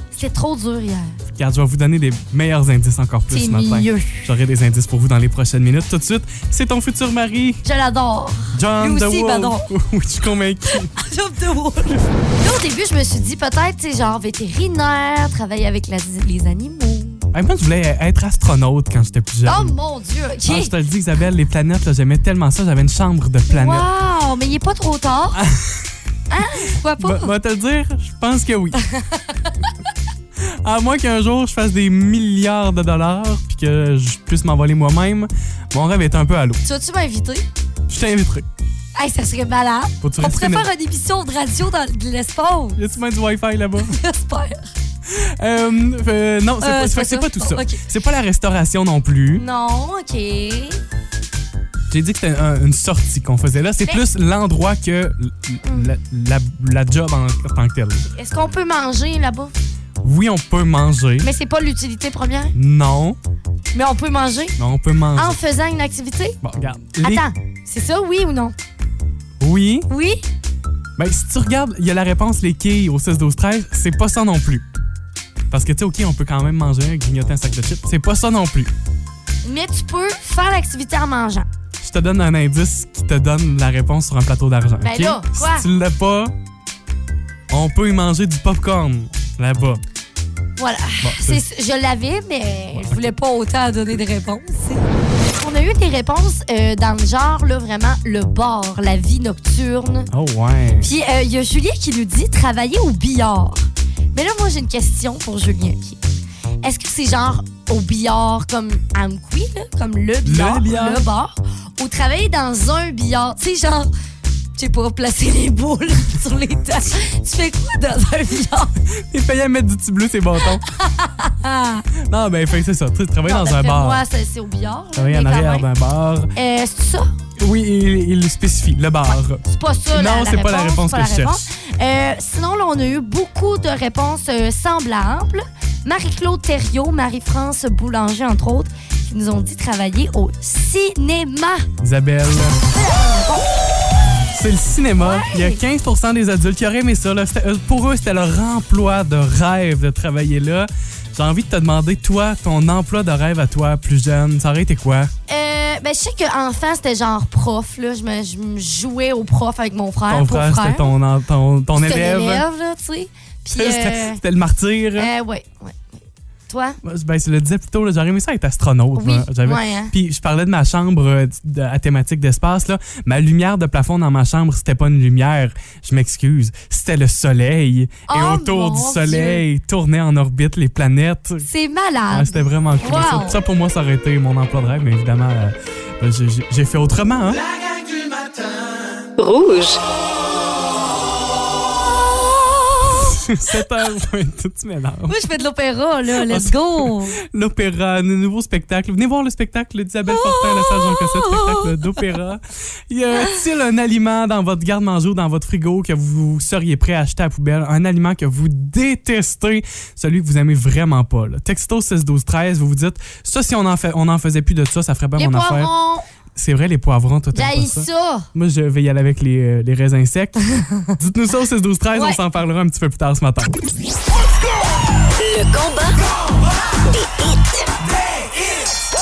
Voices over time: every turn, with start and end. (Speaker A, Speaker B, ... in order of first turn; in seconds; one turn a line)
Speaker A: 0.1-1.2
Speaker B: 1.3-7.6
Speaker A: 3.3-4.3
Speaker A: 7.6-9.7
Speaker B: 8.5-10.9
Speaker A: 10.9-17.2
Speaker B: 17.3-19.7
Speaker A: 19.4-20.7
Speaker B: 20.4-23.8
Speaker A: 23.5-25.4
Speaker B: 25.3-25.8
Speaker A: 26.3-27.3
Speaker B: 27.0-28.8
Speaker A: 28.8-29.5
Speaker B: 30.4-36.6
Speaker A: 36.6-37.5
Speaker B: 37.9-38.5
Speaker A: 39.0-42.8
Speaker B: 40.0-40.7
Speaker B: 42.8-43.9
Speaker A: 43.8-44.7
Speaker B: 45.1-49.4
Speaker A: 46.6-47.8
Speaker A: 49.3-50.8
Speaker B: 51.9-58.1
Speaker A: 55.6-55.9
Speaker A: 58.1-59.5
Speaker B: 60.0-61.3
Speaker A: 61.2-62.5
Speaker B: 62.5-63.2
Speaker A: 63.7-64.5
Speaker B: 64.6-65.4
Speaker A: 65.2-66.4
Speaker B: 66.4-67.2
Speaker A: 67.0-68.5
Speaker B: 69.4-69.9
Speaker A: 69.9-70.2
Speaker B: 71.0-74.6
Speaker B: 75.5-78.7
Speaker A: 79.4-81.5
Speaker B: 81.8-86.3
Speaker A: 84.8-85.7
Speaker B: 87.5-89.8
Speaker A: 90.6-94.8
Speaker B: 91.0-91.4
Speaker B: 92.8-93.1
Speaker A: 95.3-100.1
Speaker B: 100.1-100.9
Speaker A: 100.8-106.0
Speaker A: 106.6-113.9
Speaker B: 110.2-111.0
Speaker A: 114.6-118.8
Speaker B: 119.1-120.6
Speaker A: 120.6-121.9
Speaker B: 122.0-124.0
Speaker A: 123.2-125.7
Speaker B: 125.0-126.3
Speaker A: 126.3-127.1
Speaker B: 127.4-131.4
Speaker A: 129.4-141.7
Speaker B: 141.8-142.6
Speaker A: 142.7-143.5
Speaker B: 144.3-155.1
Speaker A: 145.0-145.6
Speaker A: 155.3-160.9
Speaker B: 160.1-162.4
Speaker A: 161.8-164.2
Speaker B: 163.6-165.1
Speaker A: 165.0-165.8
Speaker A: 166.5-166.8
Speaker B: 166.8-181.5
Speaker A: 168.9-169.9
Speaker A: 178.1-179.4
Speaker A: 181.4-183.4
Speaker B: 182.1-187.5
Speaker C: 189.2-189.8
Speaker B: 192.9-195.2
Speaker A: 195.1-197.2
Speaker B: 196.2-215.7
Speaker A: 200.1-201.9
Speaker A: 203.1-203.4
Speaker A: 215.2-216.1
Speaker B: 216.3-223.5
Speaker A: 217.3-218.3
Speaker A: 220.5-220.9
Speaker A: 221.9-222.2
Speaker C: 225.2-226.0
Speaker C: 226.9-227.7